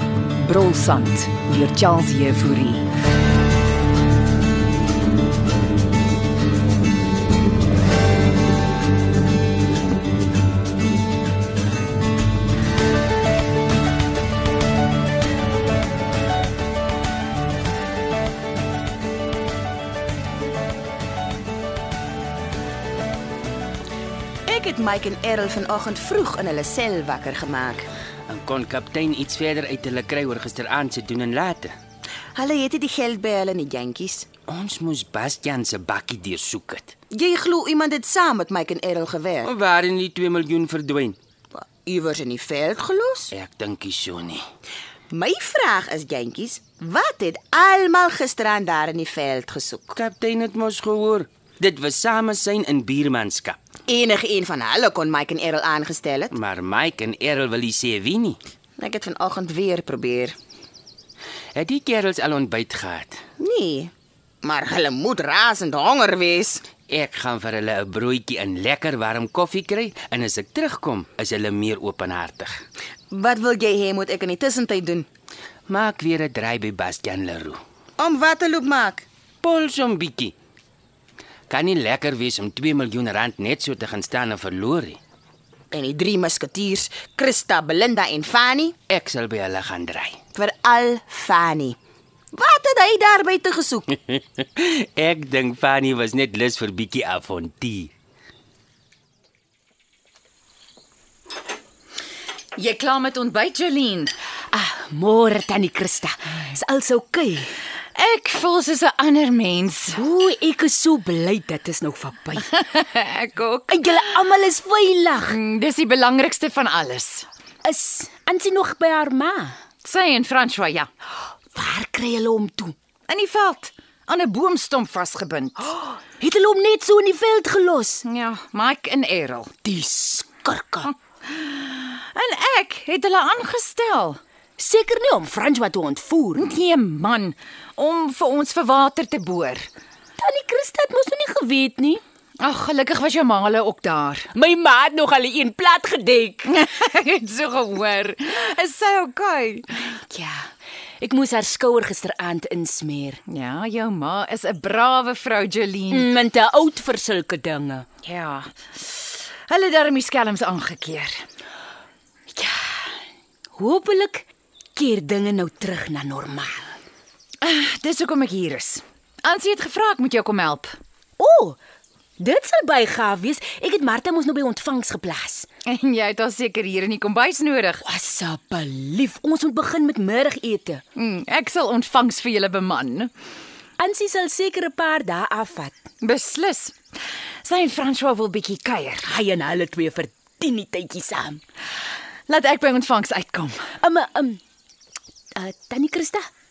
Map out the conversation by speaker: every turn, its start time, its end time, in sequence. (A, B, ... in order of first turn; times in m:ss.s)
0:00.4-0:02.8 A
0:24.5-0:27.9 B
0:28.3-0:31.7 C
0:32.3-0:34.3 B
0:34.5-0:36.9 C
0:37.1-0:39.5 B
0:39.4-0:41.2 C
0:41.5-0:43.3 B
0:43.3-0:44.4 C
0:45.1-0:50.0 B
0:49.9-0:53.6 C
0:53.9-0:56.3 B
0:56.3-0:58.4 C
0:58.8-1:00.3 B
1:01.5-1:03.2 C
1:03.4-1:03.9 B
1:04.4-1:06.6 B
1:06.9-1:12.6 C
1:13.1-1:15.1 B
1:15.7-1:17.6 C
1:18.0-1:19.0 B
1:19.4-1:20.3 C
1:21.5-1:25.0 C
1:25.7-1:28.8 B
1:28.9-1:30.2 C
1:30.3-1:31.8 B
1:32.3-1:33.9 B
1:34.0-1:37.9 C
1:42.6-1:44.1 D
1:44.5-1:47.5 E
1:47.9-1:50.0 D
1:50.0-1:52.5 E
1:52.5-1:54.0 D
1:53.7-1:55.4 E
1:55.3-1:57.3 D
1:57.6-1:59.6 E
1:59.8-2:00.9 D
2:01.5-2:02.7 E
2:03.1-2:05.8 D
2:06.1-2:08.0 E
2:08.0-2:09.6 D
2:09.6-2:10.9 E
2:10.9-2:14.2 D
2:14.6-2:16.4 E
2:16.3-2:19.7 D
2:20.2-2:22.0 E
2:22.4-2:24.3 D
2:24.3-2:26.4 E
2:26.4-2:29.8 D
2:30.0-2:33.2 E
2:33.3-2:36.1 D
2:36.0-2:37.8 E
2:38.0-2:41.2 D
2:43.5-2:46.8 E
2:47.4-2:50.8 D
2:51.2-2:51.6 E
2:52.2-2:55.5 E
2:55.6-2:57.8 D
2:57.8-3:00.8 E
3:00.9-3:03.1 D
3:03.8-3:05.8 E
3:06.0-3:06.7 D
3:07.4-3:09.0 D
3:09.0-3:11.4 E
3:12.3-3:13.7 D
3:13.8-3:14.4 E
3:15.4-3:16.3 E